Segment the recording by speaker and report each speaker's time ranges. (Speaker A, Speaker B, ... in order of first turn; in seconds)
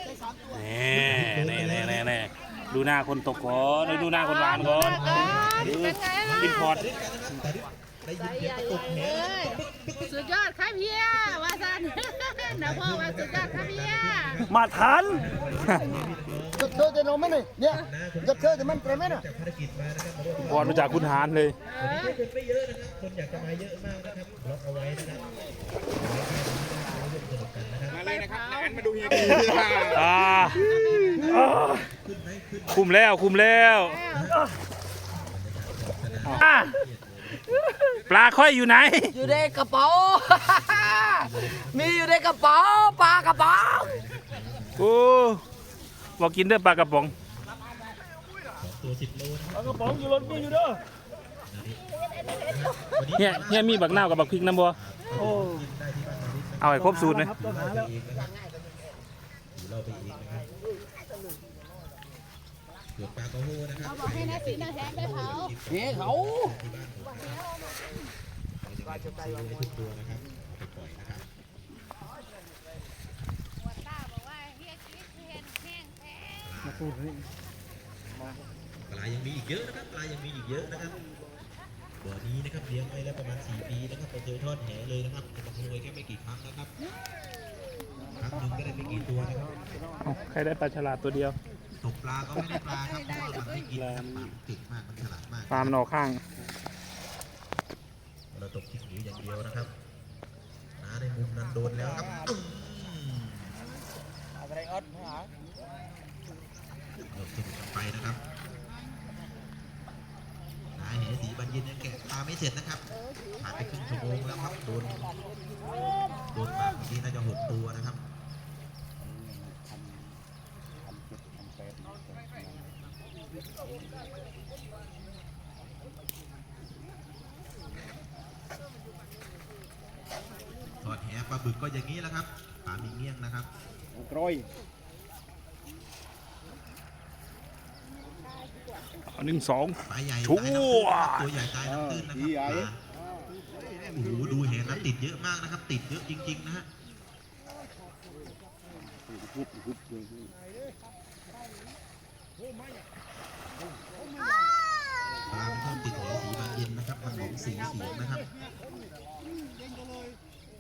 Speaker A: 0.5-6.8, 14.5-15.9, 20.4-21.6, 29.9-31.9, 32.8-34.0, 36.2-36.8, 37.8-39.2, 44.8-45.4, 46.2-47.1, 49.6-50.6, 53.2-54.8, 56.6-57.3, 90.0-91.4, 93.8-94.3, 95.5-96.2, 139.1-141.3
Speaker B: 0.9-2.1, 4.5-10.2, 12.5-17.0, 17.7-21.3, 21.8-25.3, 25.9-28.1, 30.2-32.9, 34.1-34.5, 35.1-37.7, 39.2-39.7, 40.2-42.2, 42.8-44.9, 47.2-47.5, 48.6-50.6, 51.5-58.3, 59.5-60.5, 63.0-67.4, 68.6-71.2, 76.4-76.9, 78.8-81.0, 82.0-86.7, 88.2-89.8, 91.8-95.8, 98.3-99.7, 100.8-103.5, 107.1-108.2, 110.8-112.9, 113.4-115.1, 116.3-118.0, 130.8-133.5, 139.9-142.8, 143.9-146.7, 155.3-158.2
Speaker C: 3.9-6.7, 8.2-14.4, 21.6-22.2, 28.0-29.6, 30.6-31.1, 33.8-34.3, 63.8-65.6, 67.3-67.7, 73.6-76.5, 92.7-93.6
Speaker D: 16.7-17.8, 39.1-43.9, 55.2-55.6, 56.8-57.9, 65.7-66.5, 119.0-119.7, 121.1-122.4
Speaker E: 27.9-30.2, 133.9-134.5, 141.7-142.7